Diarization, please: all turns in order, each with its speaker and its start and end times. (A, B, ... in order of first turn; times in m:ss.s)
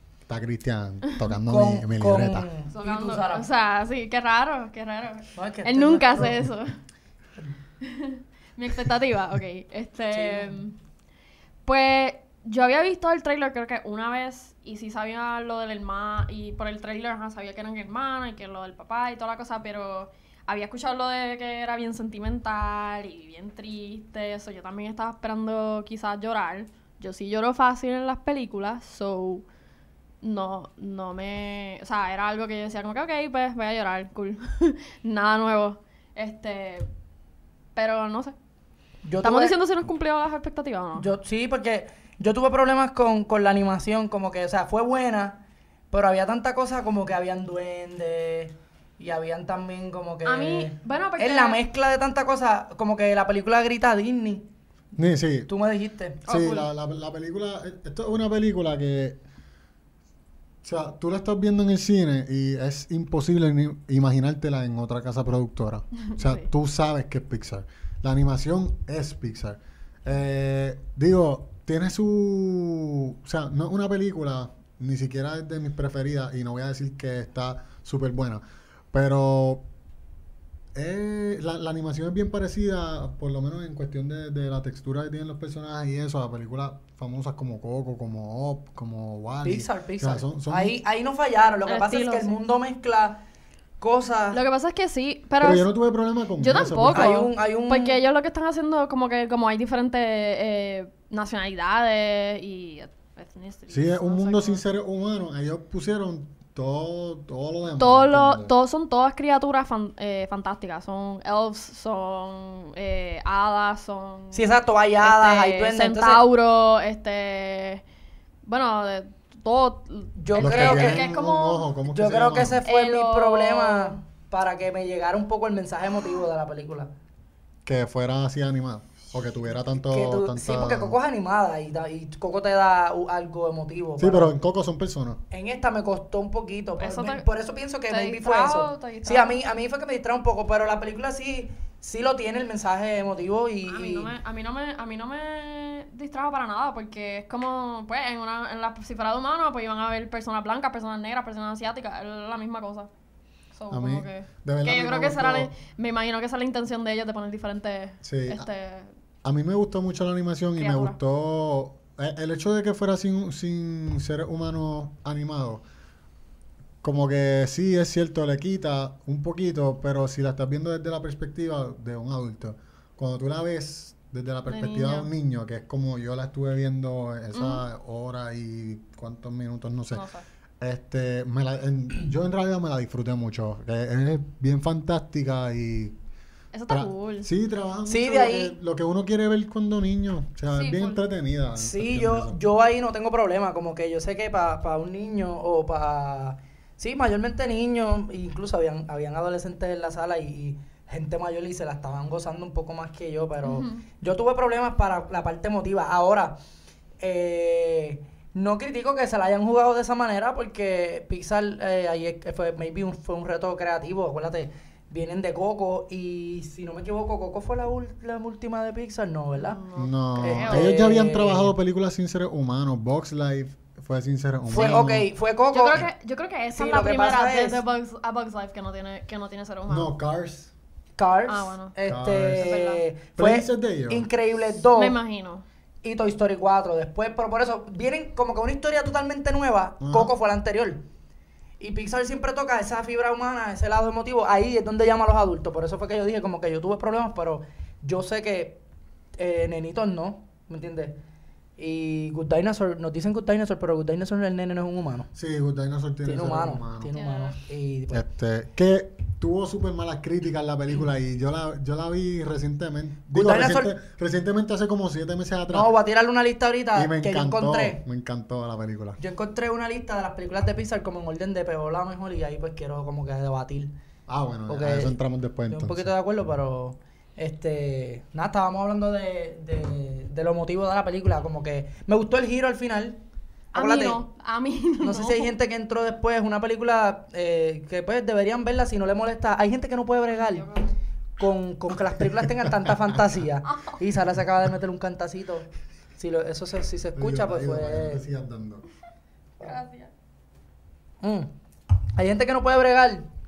0:00.3-0:02.5 A
0:01.1-0:01.3 B
0:01.5-0:03.5 C
0:02.7-0:06.7 B
0:05.4-0:06.5 C
0:07.8-0:10.7 B
0:10.1-0:10.6 C
0:11.7-0:29.4 B
0:30.2-0:36.9 B
0:37.8-0:38.4 B
0:39.1-0:39.6 C
0:39.2-0:41.1 B
0:41.0-0:45.4 C
0:45.9-0:54.5 C
0:50.2-0:51.6 B
0:55.0-0:55.5 A
0:55.5-0:56.2 C
0:56.3-0:56.7 B
0:56.3-0:59.2 A
1:00.6-1:19.6 A
1:06.0-1:06.4 B
1:20.7-1:30.8 A
1:29.4-1:33.2 C
1:31.7-1:32.3 B
1:33.8-1:34.4 C
1:34.3-1:35.7 B
1:35.4-1:37.2 A
1:36.4-1:44.6 B
1:36.9-1:38.0 C
1:43.7-1:48.5 A
1:47.8-1:54.5 B
1:54.3-1:56.2 C
1:55.0-1:57.8 B
1:58.5-2:01.7 B
2:00.2-2:01.0 C
2:00.4-2:02.6 A
2:01.9-2:06.9 C
2:02.6-2:04.0 B
2:07.6-2:11.0 A
2:09.6-2:14.3 C
2:14.0-2:15.2 A
2:15.3-2:24.1 C
2:16.8-2:17.3 B
2:17.9-2:19.4 B
2:23.6-2:32.9 B
2:33.6-2:38.9 B
2:33.7-2:35.5 A
2:38.0-2:38.5 A
2:39.2-2:45.6 A
2:40.6-2:41.0 B
2:46.8-3:00.1 A
2:54.5-2:55.1 B
2:57.3-2:57.7 B
2:59.9-3:00.2 B
3:00.6-3:06.0 A
3:06.5-3:07.3 B
3:06.7-3:12.4 A
3:07.9-3:08.5 C
3:10.5-3:11.0 B
3:11.6-3:26.4 C
3:23.4-3:23.8 B
3:27.0-3:39.6 C
3:39.4-3:40.8 B
3:39.8-3:45.1 A
3:40.2-3:41.5 C
3:44.5-3:45.8 C
3:44.5-3:44.8 B
3:45.5-3:49.9 B
3:46.5-3:47.6 C
3:49.7-3:50.5 A
3:51.0-3:55.0 C
3:51.3-3:51.8 B
3:51.9-3:52.6 A
3:52.3-3:52.8 B
3:53.2-3:54.1 A
3:54.8-3:55.4 B
3:55.8-4:00.8 C
3:59.8-4:00.1 A
4:01.6-4:08.6 C
4:09.2-4:11.0 C
4:11.6-4:15.1 C
4:15.1-4:17.0 A
4:16.0-4:18.1 C
4:16.9-4:17.4 B
4:17.9-4:25.7 A
4:23.1-4:23.7 C
4:25.5-4:27.8 C
4:26.8-4:29.0 A
4:29.0-4:33.7 C
4:34.1-4:35.9 A
4:34.5-4:35.0 C
4:35.5-4:43.0 C
4:43.5-4:44.0 C
4:43.5-4:45.3 B
4:44.8-4:50.5 C
4:50.1-4:50.7 B
4:51.2-4:58.0 C
4:53.5-4:53.8 B
4:57.0-4:58.6 A
4:59.4-4:59.9 B
5:01.0-5:01.3 C
5:02.0-5:03.1 C